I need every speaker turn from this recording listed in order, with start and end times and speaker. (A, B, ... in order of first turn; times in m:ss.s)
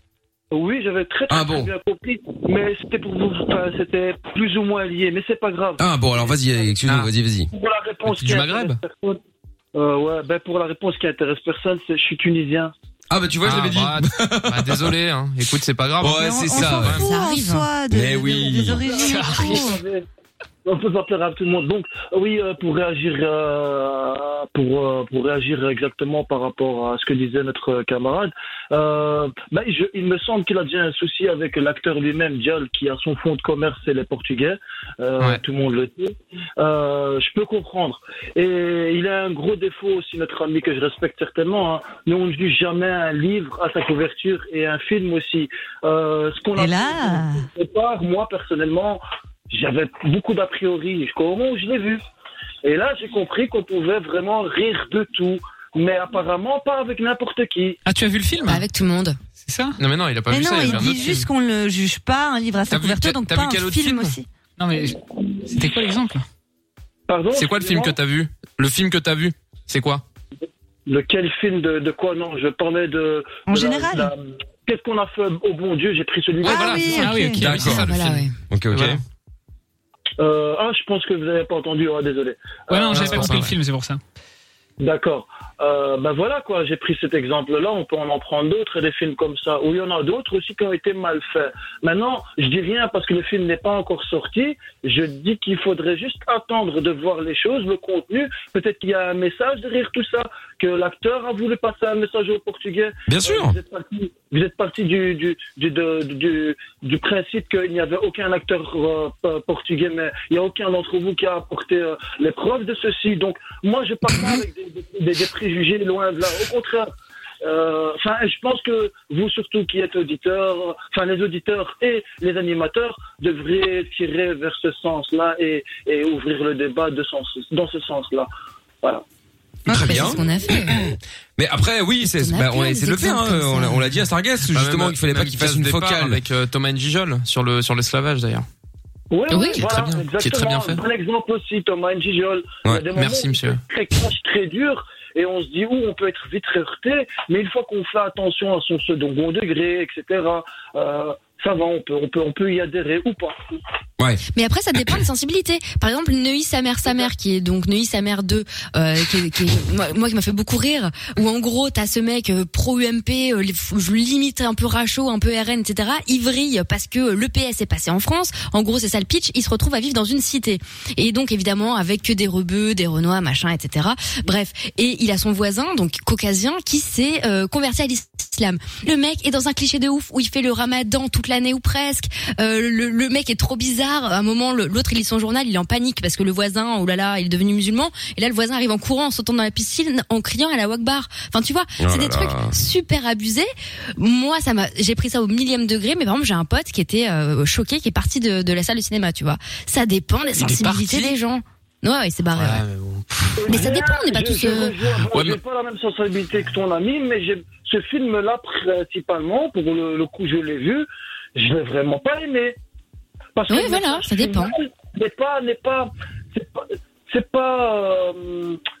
0:00.5-0:06.3 A
0:01.3-0:01.7 B
0:05.8-0:07.5 B
0:06.8-0:07.1 C
0:07.5-0:09.2 A
0:08.0-0:08.8 C
0:09.7-0:12.7 A
0:13.1-0:15.0 B
0:13.4-0:17.1 C
0:16.0-0:17.0 B
0:16.1-0:19.8 D
0:17.0-0:17.6 E
0:17.9-0:18.8 B
0:18.8-0:20.0 A
0:19.0-0:19.6 F
0:20.6-0:52.0 A
0:46.6-0:47.5 D
0:52.6-0:57.8 A
0:57.8-0:58.6 F
0:58.4-0:59.2 E
0:59.4-0:59.8 F
0:59.8-1:01.3 C
1:00.3-1:04.2 D
1:02.7-1:04.2 C
1:04.6-1:06.2 F
1:07.1-1:08.0 A
1:07.3-1:10.0 C
1:10.9-1:17.0 A
1:13.5-1:14.1 D
1:16.4-1:19.0 C
1:16.4-1:17.4 D
1:16.9-1:17.7 F
1:17.4-1:17.8 B
1:17.6-1:18.3 E
1:18.5-1:19.0 B
1:20.2-1:23.3 A
1:22.7-1:24.0 F
1:22.9-1:23.5 C
1:24.8-1:56.9 A
1:43.1-1:43.6 B
1:57.4-2:08.3 A
2:09.7-2:10.8 E
2:09.7-2:16.2 B
2:12.0-2:13.8 E
2:14.5-2:18.4 C
2:19.1-2:33.6 A
2:19.3-2:19.6 E
2:19.5-2:20.8 C
2:22.9-2:23.6 C
2:34.3-3:22.6 E
3:11.8-3:12.5 B
3:20.3-3:21.1 C
3:22.4-3:23.6 C
3:23.4-3:32.6 A
3:23.5-3:24.8 E
3:25.1-3:25.4 C
3:33.3-3:38.6 A
3:33.5-3:34.5 E